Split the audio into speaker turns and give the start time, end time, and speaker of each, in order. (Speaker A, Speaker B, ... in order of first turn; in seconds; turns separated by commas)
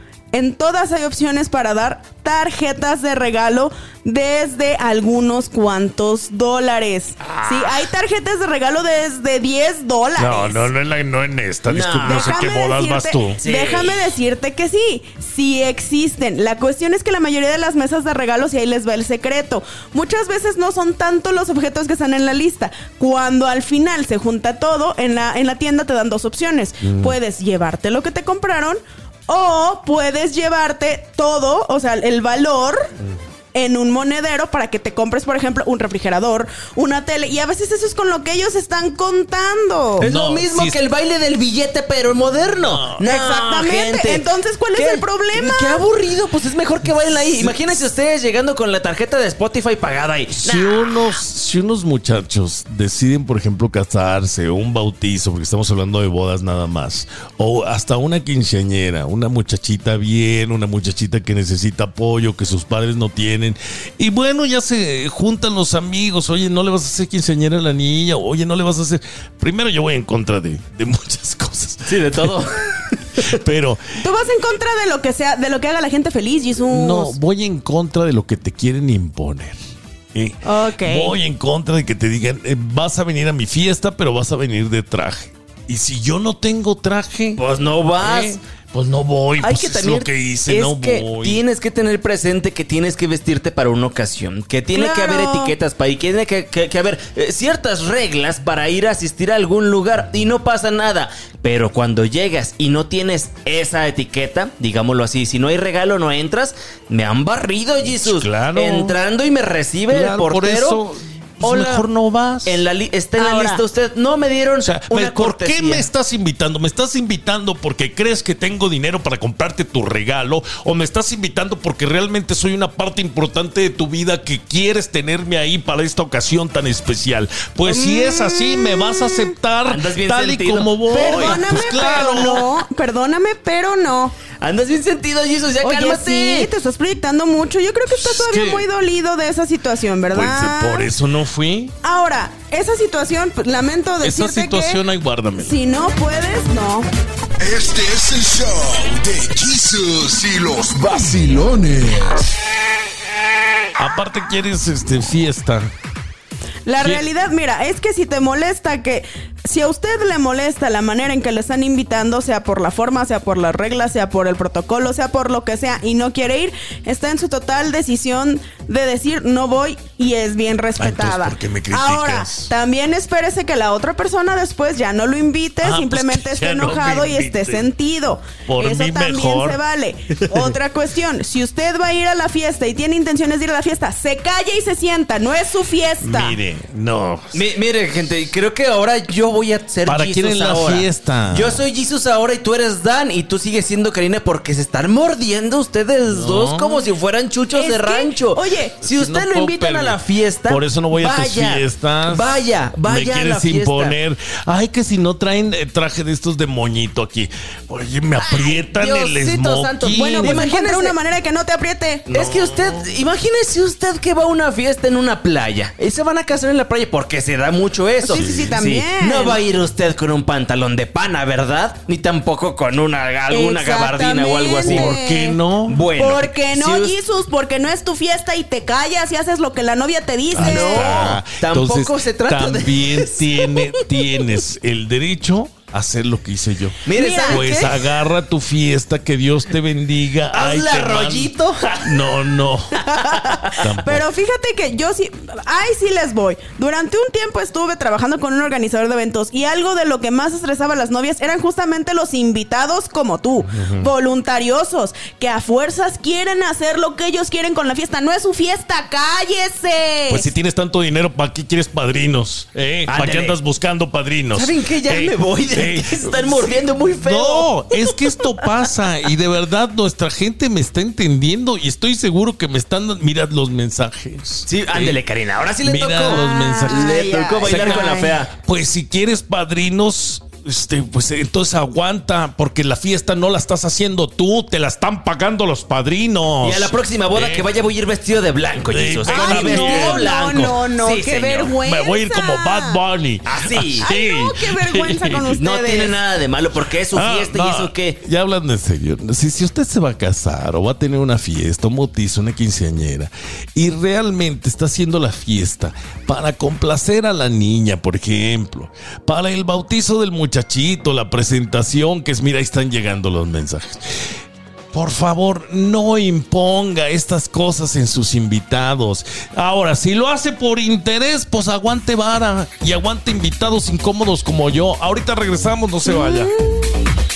Speaker A: 0.3-10.7, Speaker B: 10.2-13.4, Speaker C: 11.7-12.5, Speaker A: 12.1-32.9, Speaker C: 13.4-14.0, Speaker B: 26.8-27.1, Speaker A: 33.5-40.1, Speaker B: 40.0-40.8, Speaker C: 40.0-51.1, Speaker B: 42.6-43.1, Speaker A: 43.0-45.8, Speaker B: 50.4-72.5, Speaker C: 71.9-73.3, Speaker B: 73.2-73.8, Speaker A: 74.0-77.2, Speaker B: 76.7-79.6, Speaker B: 80.1-87.4, Speaker A: 80.4-81.1, Speaker C: 87.4-88.4, Speaker B: 88.0-91.4, Speaker C: 89.4-110.8, Speaker A: 94.7-95.5, Speaker B: 108.0-109.0, Speaker B: 109.9-112.6, Speaker C: 111.4-111.9, Speaker C: 112.5-115.9, Speaker A: 113.2-113.6, Speaker B: 114.6-132.4, Speaker A: 127.7-129.3, Speaker C: 129.7-131.9, Speaker A: 130.9-134.2, Speaker C: 134.3-136.5, Speaker A: 135.6-140.9, Speaker B: 138.0-138.7, Speaker B: 140.1-141.8, Speaker A: 141.8-144.8, Speaker B: 144.0-145.6, Speaker A: 145.3-146.9, Speaker D: 147.4-152.3, Speaker B: 153.8-155.7, Speaker A: 156.7-186.4, Speaker B: 170.8-172.5, Speaker B: 175.6-177.7, Speaker B: 178.5-179.6, Speaker B: 186.0-187.4, Speaker C: 187.3-204.0, Speaker B: 189.9-191.6, Speaker B: 196.1-196.9, Speaker A: 197.5-198.8, Speaker B: 198.8-210.5, Speaker C: 208.3-211.0, Speaker A: 209.9-212.1, Speaker C: 212.1-225.0, Speaker B: 212.2-212.9, Speaker A: 218.0-219.4, Speaker B: 218.1-218.5, Speaker A: 223.3-225.4, Speaker B: 224.6-225.8, Speaker C: 225.7-227.0, Speaker A: 225.9-231.2, Speaker B: 230.3-241.3, Speaker C: 230.4-233.8, Speaker C: 236.9-237.8, Speaker A: 236.9-237.7, Speaker C: 240.3-242.1, Speaker B: 241.8-242.9, Speaker C: 242.9-243.7, Speaker B: 243.6-244.0, Speaker A: 243.7-260.3, Speaker B: 253.5-253.9, Speaker B: 260.1-275.0, Speaker C: 262.9-263.4, Speaker C: 264.3-267.5, Speaker C: 274.5-278.3, Speaker B: 275.6-287.5, Speaker A: 276.1-278.1, Speaker C: 286.4-291.5, Speaker B: 288.7-290.1, Speaker A: 289.1-292.8, Speaker B: 291.6-295.3, Speaker C: 293.2-293.9, Speaker A: 293.8-295.9, Speaker C: 295.4-298.0, Speaker B: 296.9-313.8, Speaker B: 314.7-326.3, Speaker A: 325.9-326.8